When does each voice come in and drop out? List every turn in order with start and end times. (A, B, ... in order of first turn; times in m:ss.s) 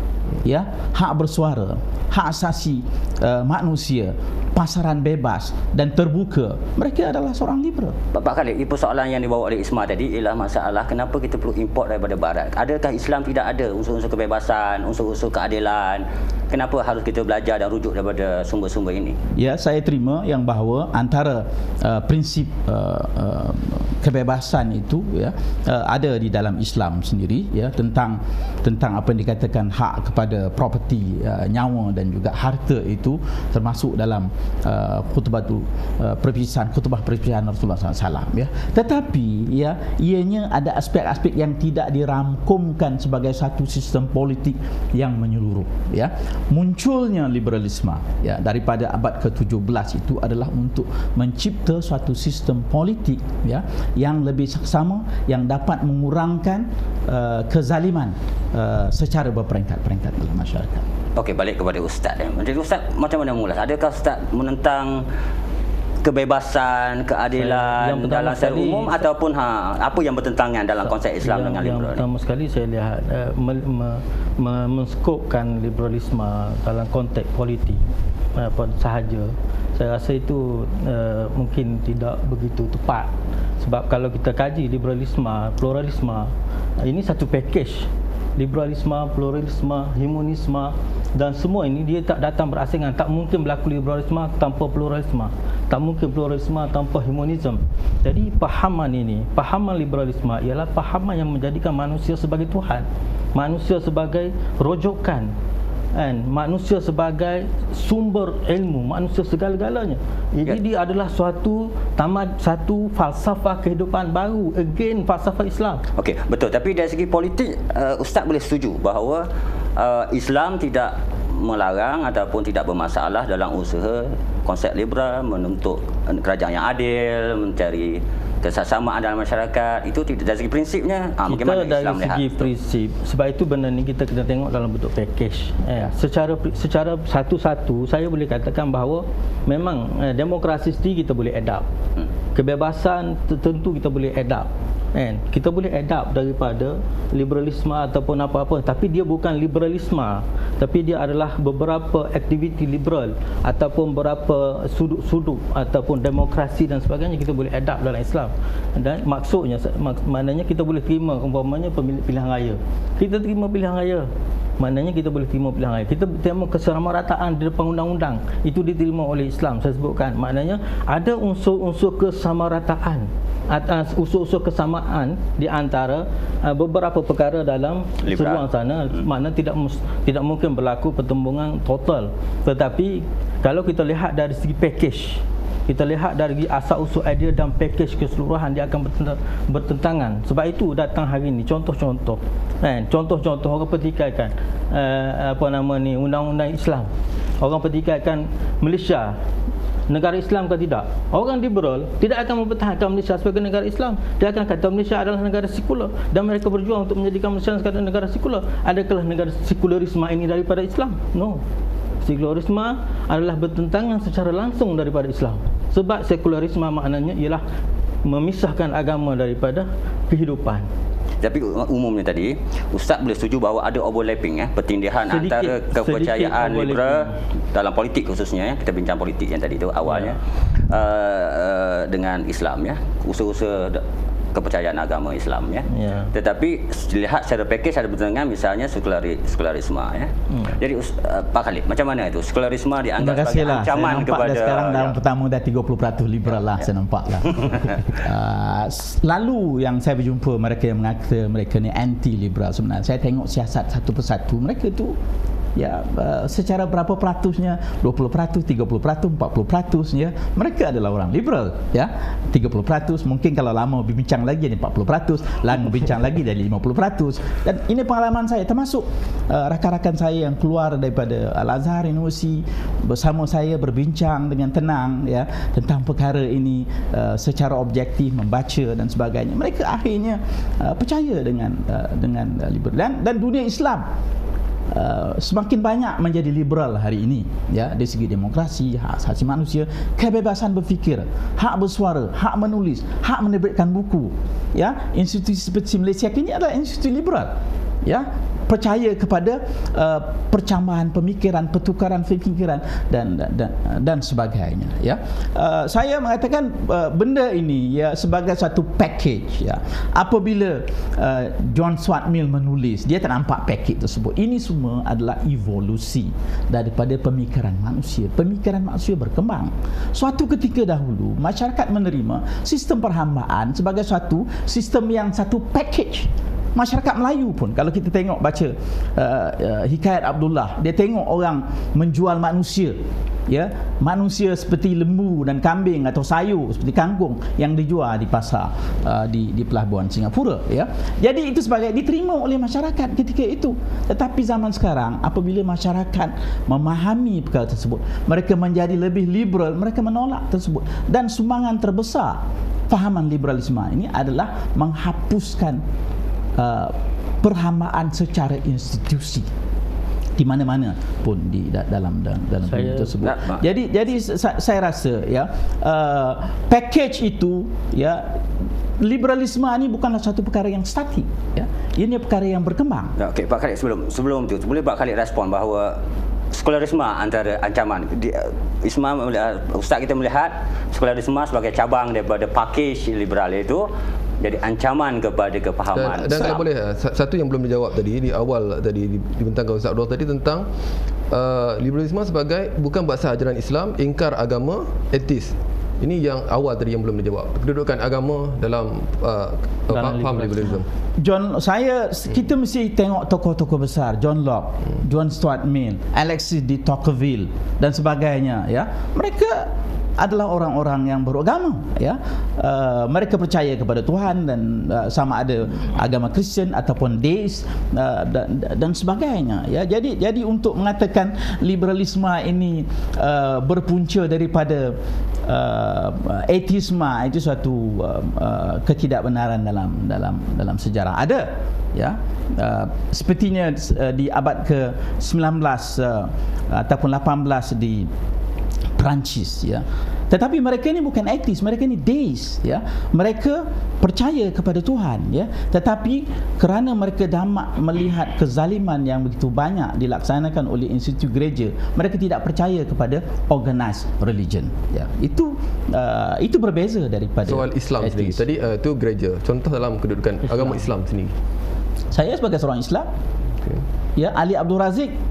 0:00.4-0:08.0 A
0:08.1-0:19.2 B
0:19.4-1:00.9 A
1:01.2-1:05.1 B
1:06.0-1:12.0 B
1:07.4-1:09.1 C
1:10.8-1:17.8 C
1:18.4-1:45.3 C
1:45.9-1:55.8 C
1:56.0-2:12.5 B
2:11.2-2:21.7 C
2:22.3-3:19.2 C
2:58.1-2:58.4 B
3:19.9-3:31.4 C
3:32.0-3:37.4 C
3:38.0-3:40.7 C
3:41.2-4:05.0 B
3:45.0-3:47.2 C
3:49.9-3:50.2 C
3:55.7-3:56.1 C
4:03.0-4:15.0 A
4:15.6-4:43.9 A
4:44.7-5:55.6 A
5:56.4-5:59.3 A
6:00.2-6:13.0 A
6:02.5-6:03.0 C
6:03.0-6:03.4 B
6:13.0-6:15.8 B
6:16.3-6:23.7 B
6:24.2-6:26.4 B
6:25.7-6:30.5 D
6:26.1-6:26.4 A
6:31.1-6:40.7 D
6:39.7-6:40.6 C
6:41.0-7:17.9 A
7:18.8-7:38.3 A
7:37.3-7:41.1 D
7:41.9-7:42.9 A
7:43.4-7:43.6 D
7:44.0-7:44.9 A